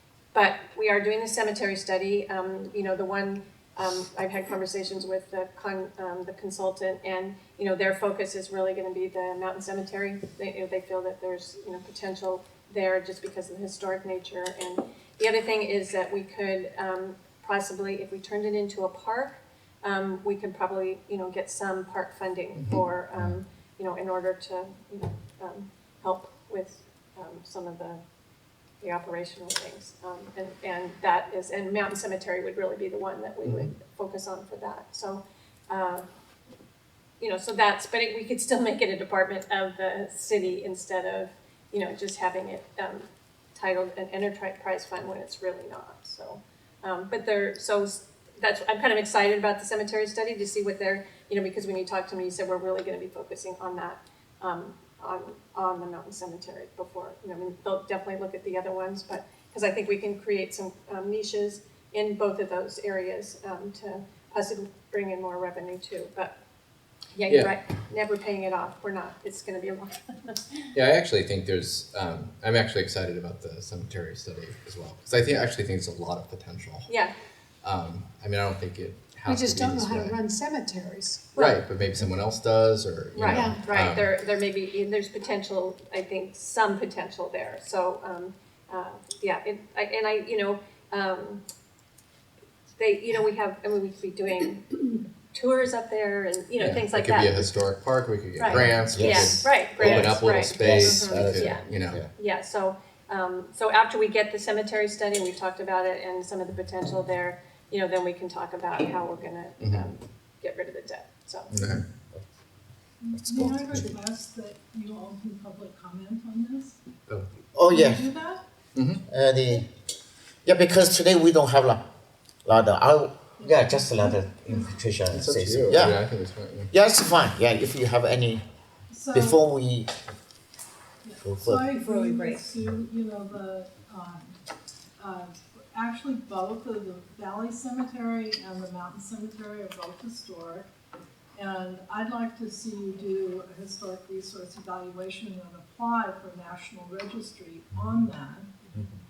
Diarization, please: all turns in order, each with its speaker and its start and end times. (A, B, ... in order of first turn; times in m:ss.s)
0:00.3-0:28.0 A
0:22.6-0:23.3 B
0:28.8-0:36.0 A
0:33.4-0:33.7 B
0:37.2-1:06.3 A
1:07.1-1:10.4 A
1:07.3-1:07.5 B
1:10.7-1:16.9 B
1:17.6-1:20.2 B
1:19.2-1:21.4 C
1:21.3-1:21.6 A
1:21.4-1:24.1 B
1:23.1-1:31.4 A
1:23.2-1:23.6 C
1:32.8-1:37.4 A
1:36.6-1:42.0 B
1:38.4-1:51.5 A
1:38.5-1:42.1 D
1:49.6-1:49.9 B
1:51.5-1:51.8 B
1:53.0-1:56.8 E
1:53.2-1:53.9 D
1:57.5-1:58.0 D
1:57.7-1:58.4 E
1:58.7-1:59.0 B
1:59.0-1:59.7 D
2:00.4-2:01.8 D
2:02.4-2:06.0 D
2:03.4-2:04.6 E
2:05.1-2:06.7 B
2:06.7-2:08.4 D
2:08.9-2:09.4 E
2:09.1-2:09.9 D
2:11.0-2:14.4 E
2:11.2-2:11.7 D
2:11.7-2:12.5 C
2:15.0-2:20.7 E
2:21.3-2:28.7 E